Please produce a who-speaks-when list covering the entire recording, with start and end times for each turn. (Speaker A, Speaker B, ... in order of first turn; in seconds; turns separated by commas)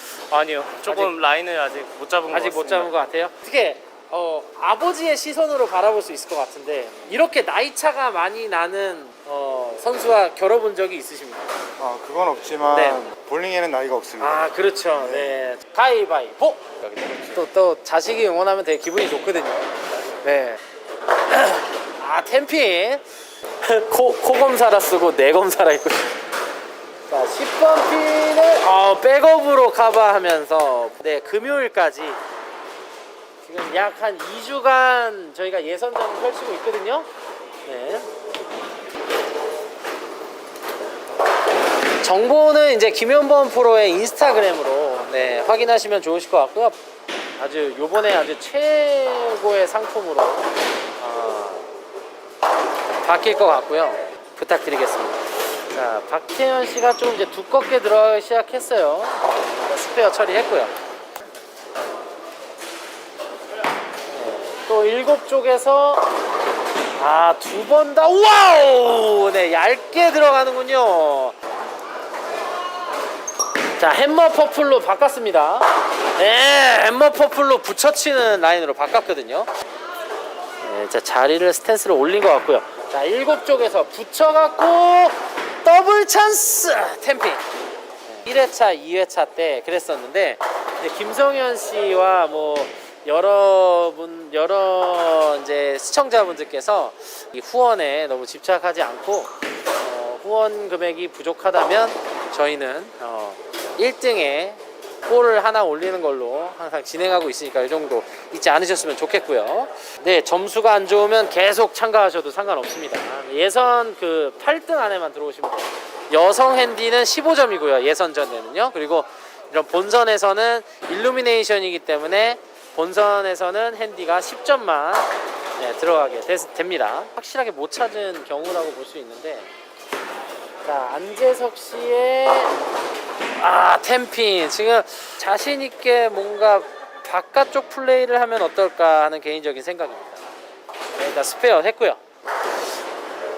Speaker A: 0.3-2.9, Speaker B: 0.9-1.1, Speaker B: 2.3-11.4, Speaker C: 11.8-14.4, Speaker B: 12.7-13.1, Speaker B: 14.2-19.7, Speaker C: 15.0-15.5, Speaker B: 20.2-20.6, Speaker B: 21.3-23.0, Speaker B: 23.6-26.2, Speaker B: 27.1-32.2, Speaker B: 33.4-37.1, Speaker B: 37.7-38.1, Speaker B: 42.0-46.8, Speaker B: 47.4-51.7, Speaker B: 53.0-60.7, Speaker B: 64.1-66.0, Speaker B: 67.0-71.3, Speaker B: 73.8-79.5, Speaker B: 80.6-87.4, Speaker B: 88.1-129.4, Speaker B: 130.6-132.5, Speaker B: 133.4-140.2, Speaker B: 141.0-142.0